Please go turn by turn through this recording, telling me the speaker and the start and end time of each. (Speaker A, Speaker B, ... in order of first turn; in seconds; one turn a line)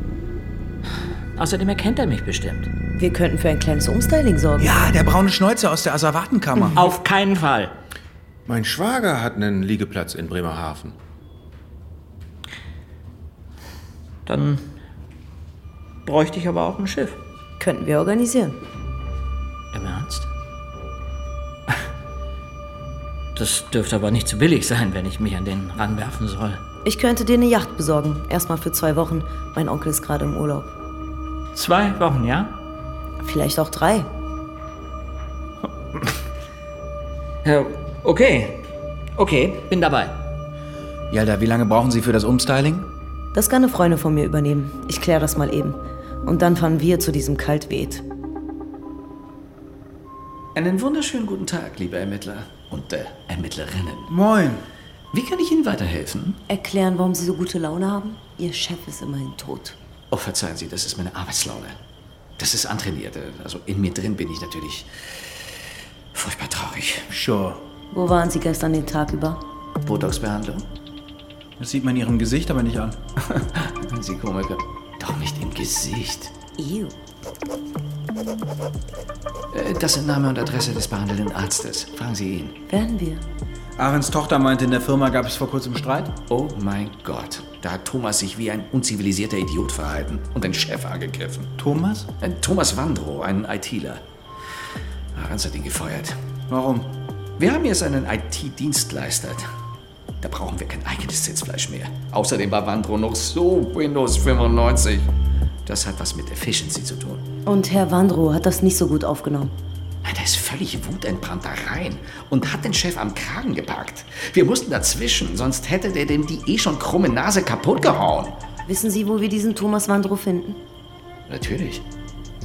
Speaker A: 1.4-2.7
Speaker B: 3.0-5.0
Speaker C: 4.6-6.9
Speaker A: 6.8-7.7
Speaker D: 8.5-11.0
Speaker A: 14.3-14.7
Speaker A: 16.1-17.2
Speaker B: 17.6-18.6
Speaker A: 19.7-20.3
Speaker A: 23.4-26.6
Speaker B: 26.9-30.7
Speaker A: 31.5-32.5
Speaker B: 33.2-34.1
Speaker A: 37.4-38.6
Speaker A: 39.2-40.2
Speaker C: 41.1-42.9
Speaker B: 43.3-48.0
Speaker E: 50.5-54.1
Speaker C: 54.1-54.6
Speaker E: 55.1-56.4
Speaker B: 56.5-59.8
Speaker E: 60.1-61.8
Speaker E: 62.4-65.0
Speaker E: 66.1-67.1
Speaker C: 67.1-67.6
Speaker B: 67.9-69.4
Speaker E: 69.8-70.7
Speaker C: 71.6-73.0
Speaker E: 73.3-76.3
Speaker B: 76.6-77.0
Speaker E: 79.5-82.6
Speaker B: 82.7-83.2
Speaker C: 83.8-86.2
Speaker E: 86.3-91.5
Speaker C: 91.6-92.1
Speaker E: 92.2-94.0
Speaker E: 95.1-96.2
Speaker C: 96.5-96.9
Speaker E: 97.4-99.5
Speaker E: 100.2-105.1
Speaker E: 105.7-107.2
Speaker B: 107.5-109.5
Speaker E: 110.0-118.4
Speaker B: 118.7-120.6
Speaker E: 121.3-121.8